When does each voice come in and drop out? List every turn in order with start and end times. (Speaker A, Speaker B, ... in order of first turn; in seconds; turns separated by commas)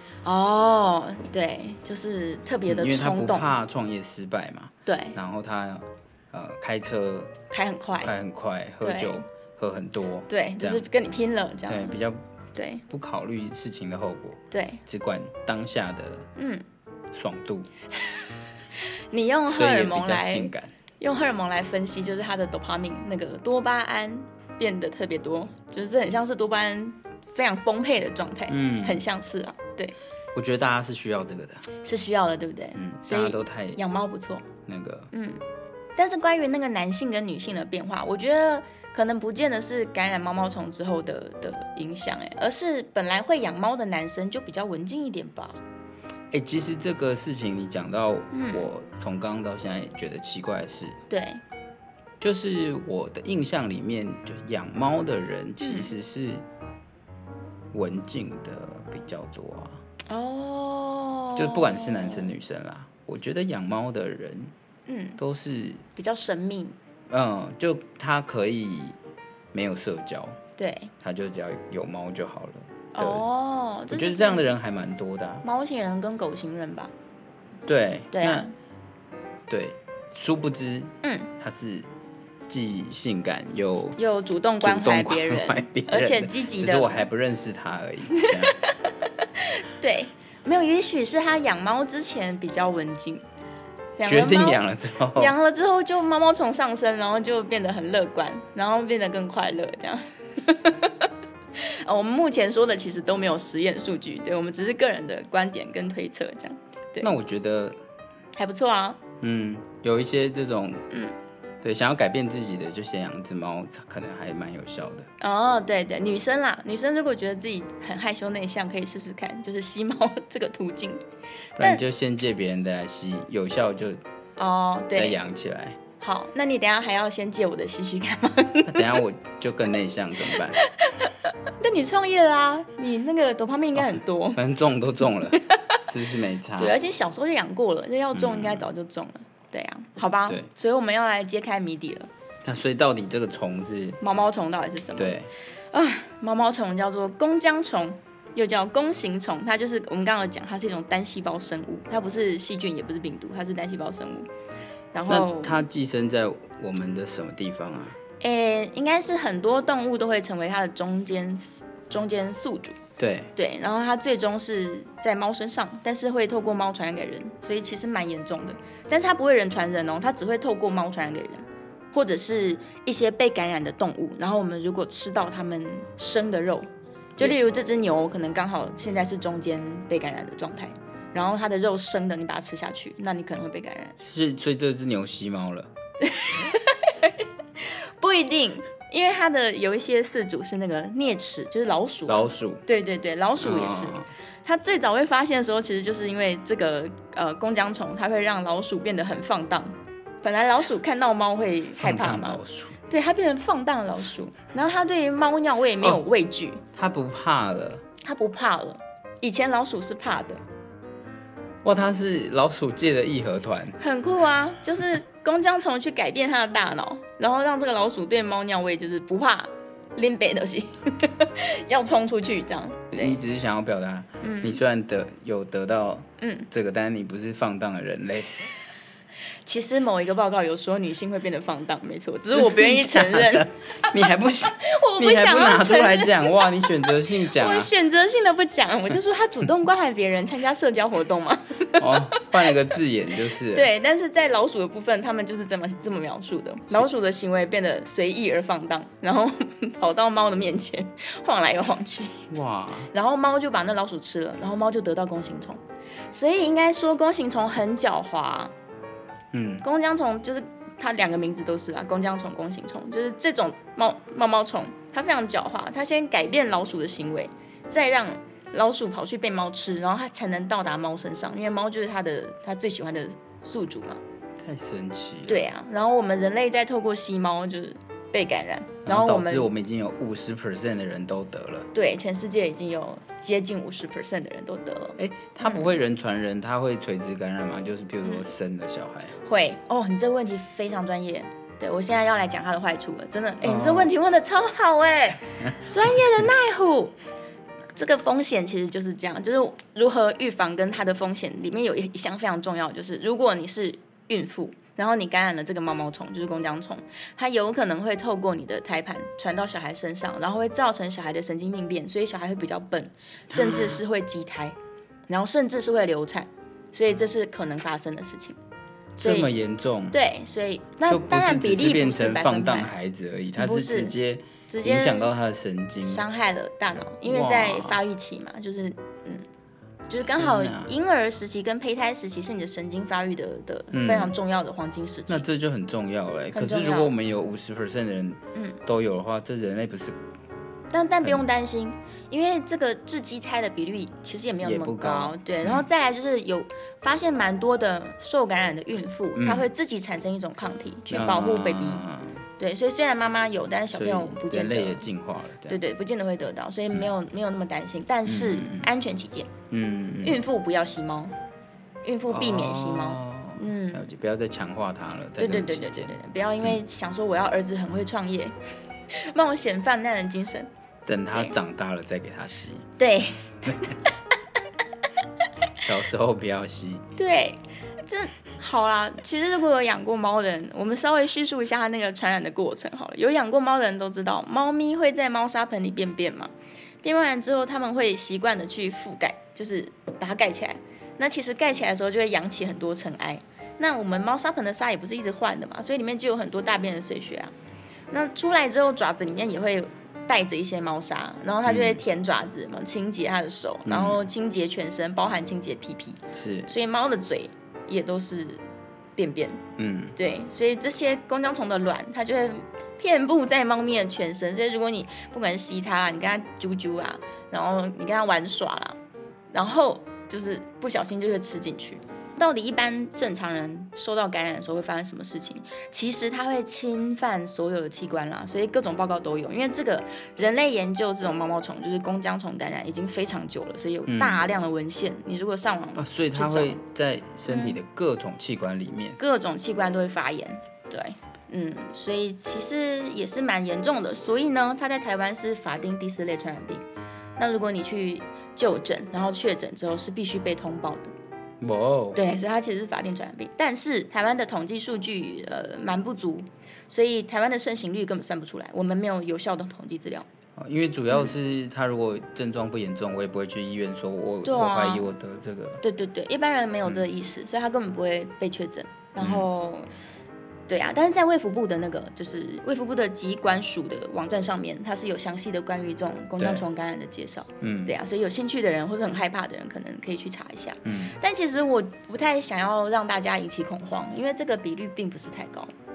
Speaker A: 0.2-3.5, Speaker B: 2.7-7.3, Speaker A: 4.9-5.2, Speaker A: 7.5-8.1, Speaker B: 8.0-10.8, Speaker A: 8.8-9.2, Speaker A: 10.3-12.0, Speaker B: 11.7-12.2, Speaker A: 12.6-12.8, Speaker B: 12.9-16.3, Speaker A: 14.5-14.8, Speaker A: 16.4-16.6, Speaker B: 17.1-17.7, Speaker A: 18.7-29.9, Speaker B: 19.5-20.7, Speaker B: 28.5-29.0, Speaker B: 30.3-31.6, Speaker A: 31.8-34.5, Speaker B: 32.8-33.8, Speaker B: 34.7-35.1, Speaker A: 35.1-35.4, Speaker A: 36.0-45.6, Speaker B: 46.3-51.0, Speaker A: 48.3-48.7, Speaker A: 51.1-51.4, Speaker B: 52.2-56.4, Speaker A: 55.6-55.9, Speaker B: 57.7-59.8, Speaker A: 60.1-62.3, Speaker B: 61.4-64.5, Speaker A: 64.9-65.2, Speaker B: 65.2-65.8, Speaker A: 66.0-66.8, Speaker B: 67.1-69.0, Speaker B: 69.5-70.4, Speaker A: 70.6-70.9, Speaker B: 71.0-73.2, Speaker A: 73.0-74.4, Speaker B: 73.9-75.5, Speaker A: 75.4-76.9, Speaker B: 77.7-78.5, Speaker A: 78.1-78.5, Speaker B: 79.5-81.9, Speaker A: 81.0-81.3, Speaker B: 82.5-84.0, Speaker A: 84.0-87.1, Speaker B: 84.6-88.6, Speaker A: 88.1-93.2, Speaker A: 94.0-94.6, Speaker B: 94.1-95.3, Speaker A: 95.2-107.1, Speaker B: 107.0-107.8, Speaker A: 108.3-109.0, Speaker B: 109.2-110.8, Speaker B: 111.6-115.1, Speaker A: 115.2-121.0, Speaker B: 121.6-124.0, Speaker A: 124.4-125.2, Speaker B: 124.9-125.8, Speaker A: 126.0-129.0, Speaker B: 128.7-130.6, Speaker A: 130.6-134.4, Speaker B: 133.8-136.8, Speaker A: 135.3-135.8, Speaker A: 136.6-142.1, Speaker B: 138.1-138.7, Speaker B: 142.4-144.0, Speaker A: 144.0-145.2, Speaker B: 145.0-145.3, Speaker A: 145.7-154.3, Speaker A: 154.9-155.7, Speaker B: 155.1-158.0, Speaker A: 158.2-162.8, Speaker B: 163.0-163.3, Speaker A: 163.4-184.0, Speaker B: 184.0-185.7, Speaker A: 186.0-206.6, Speaker B: 192.1-192.6, Speaker B: 193.4-194.1, Speaker B: 201.8-202.8, Speaker B: 206.7-207.8, Speaker A: 208.0-210.4, Speaker B: 211.6-213.8, Speaker A: 213.8-223.2, Speaker B: 222.9-228.5, Speaker A: 224.2-224.6, Speaker A: 226.2-226.5, Speaker A: 229.5-242.5, Speaker B: 232.3-237.7, Speaker B: 241.8-243.7, Speaker A: 243.4-252.3, Speaker B: 252.3-252.9, Speaker A: 252.9-255.6, Speaker A: 256.1-258.5, Speaker B: 259.3-259.6, Speaker A: 259.6-274.0, Speaker B: 274.4-275.5, Speaker A: 275.3-279.5, Speaker B: 278.9-281.7, Speaker A: 281.7-285.7, Speaker B: 285.0-289.1, Speaker A: 289.2-296.9, Speaker B: 293.4-293.9, Speaker B: 295.5-296.1, Speaker A: 297.8-314.6, Speaker B: 313.3-313.8, Speaker A: 315.1-318.4, Speaker B: 319.0-320.0, Speaker A: 319.0-319.3, Speaker A: 319.9-322.7, Speaker B: 320.9-326.1, Speaker A: 323.4-323.9, Speaker A: 324.5-325.1, Speaker A: 325.8-329.3, Speaker B: 327.1-327.8, Speaker A: 329.9-335.2, Speaker B: 330.1-330.7, Speaker B: 333.7-334.1, Speaker B: 335.1-340.0, Speaker A: 336.3-336.9, Speaker A: 338.4-338.6, Speaker A: 340.7-351.8, Speaker B: 344.4-345.7, Speaker B: 349.2-349.5, Speaker B: 350.9-352.2, Speaker A: 352.4-354.9, Speaker B: 353.7-355.6, Speaker A: 355.5-359.3, Speaker B: 358.1-358.7, Speaker B: 359.5-360.2, Speaker A: 360.0-361.1, Speaker A: 361.8-363.9, Speaker B: 362.1-366.6, Speaker A: 365.2-368.4, Speaker A: 368.9-370.5, Speaker B: 370.9-372.7, Speaker A: 372.8-373.9, Speaker B: 375.6-376.8, Speaker A: 377.0-386.3, Speaker A: 386.8-397.3, Speaker A: 397.9-408.4, Speaker B: 401.5-401.8, Speaker B: 403.6-404.0, Speaker B: 406.1-406.5, Speaker A: 409.0-409.4, Speaker B: 409.6-409.9, Speaker A: 410.0-418.8, Speaker A: 419.3-436.6, Speaker B: 433.9-434.2, Speaker B: 435.8-439.0, Speaker A: 437.3-437.6, Speaker A: 439.0-446.6, Speaker A: 447.2-450.9, Speaker B: 451.4-452.0, Speaker A: 451.9-460.1, Speaker B: 460.4-465.6, Speaker A: 464.2-464.9, Speaker A: 465.6-469.7, Speaker B: 469.0-469.3, Speaker A: 470.5-485.5, Speaker B: 476.2-476.4, Speaker B: 477.4-477.8, Speaker B: 480.6-481.0